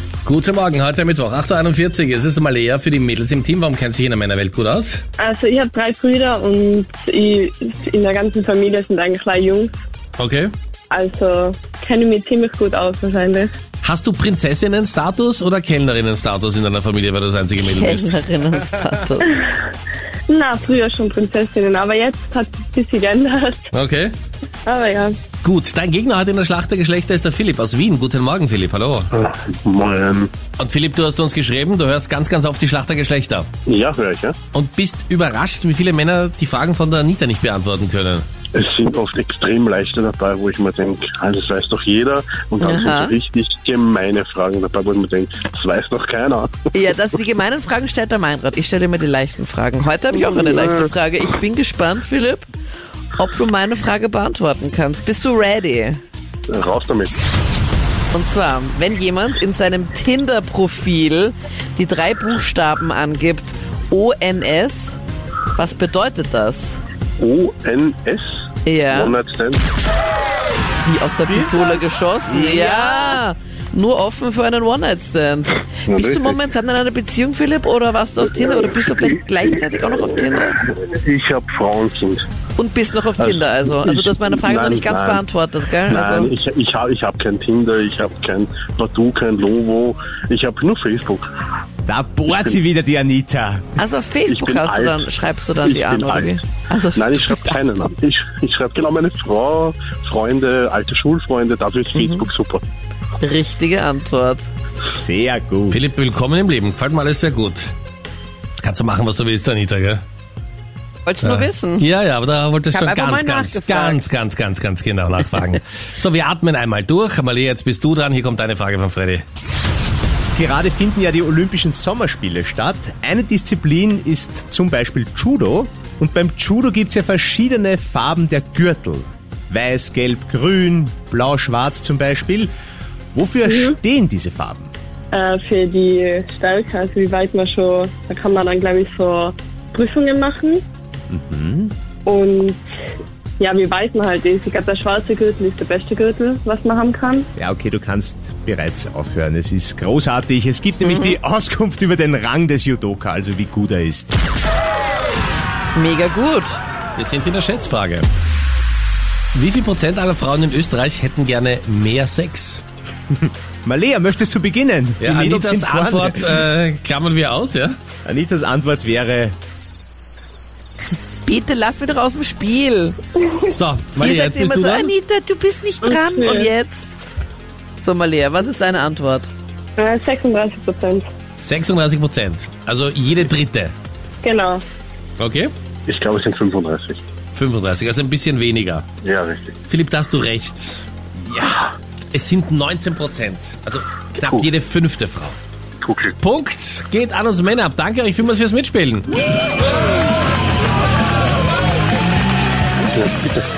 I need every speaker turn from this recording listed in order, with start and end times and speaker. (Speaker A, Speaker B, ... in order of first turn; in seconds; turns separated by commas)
Speaker A: 0.2-5.0, Speaker B: 5.2-9.7, Speaker A: 10.2-10.5, Speaker B: 10.9-13.5, Speaker A: 13.8-18.2, Speaker C: 17.6-19.4, Speaker B: 20.3-23.7, Speaker A: 23.7-24.1, Speaker B: 24.6-25.1, Speaker A: 25.4-29.1, Speaker D: 29.1-30.3, Speaker A: 30.6-33.5, Speaker D: 33.6-34.4, Speaker A: 34.5-38.2, Speaker D: 38.5-46.5, Speaker C: 42.6-43.2, Speaker C: 46.7-52.5, Speaker D: 50.2-50.7, Speaker C: 53.1-56.0, Speaker D: 56.5-57.2, Speaker C: 58.1-65.0, Speaker C: 65.5-66.8, Speaker D: 67.2-68.4, Speaker C: 68.6-69.1, Speaker D: 68.9-69.7, Speaker C: 70.8-80.6, Speaker E: 71.3-73.2, Speaker D: 75.8-76.4, Speaker D: 80.5-82.2, Speaker C: 82.5-86.3, Speaker D: 83.2-85.2, Speaker D: 85.8-91.3, Speaker E: 91.8-93.7, Speaker C: 93.8-97.6, Speaker D: 94.3-96.4, Speaker D: 96.9-102.6, Speaker C: 101.9-102.2, Speaker C: 103.2-104.5, Speaker E: 104.8-105.8, Speaker A: 105.7-107.7, Speaker A: 108.6-110.0, Speaker C: 111.0-111.9, Speaker A: 111.2-119.2, Speaker C: 112.7-114.0, Speaker E: 120.3-132.5, Speaker E: 133.1-134.7, Speaker B: 135.1-140.6, Speaker E: 141.1-141.7, Speaker B: 142.1-142.6, Speaker B: 143.4-147.3, Speaker E: 147.3-154.2, Speaker C: 150.8-151.2, Speaker C: 155.7-156.6, Speaker A: 156.9-158.1, Speaker A: 159.3-162.6, Speaker E: 163.1-166.4, Speaker A: 165.0-167.8, Speaker E: 168.0-169.3, Speaker C: 171.2-173.0, Speaker A: 173.5-174.9, Speaker C: 174.0-176.9, Speaker B: 175.9-176.5, Speaker C: 177.8-179.3, Speaker B: 179.8-181.1, Speaker A: 181.4-183.7, Speaker B: 184.2-184.6, Speaker A: 185.2-185.5, Speaker D: 185.9-187.0, Speaker A: 187.3-188.9, Speaker D: 189.0-189.6, Speaker A: 189.7-190.8, Speaker E: 191.2-191.7, Speaker A: 192.1-195.4, Speaker D: 195.8-196.1, Speaker A: 196.2-199.1, Speaker D: 202.9-203.3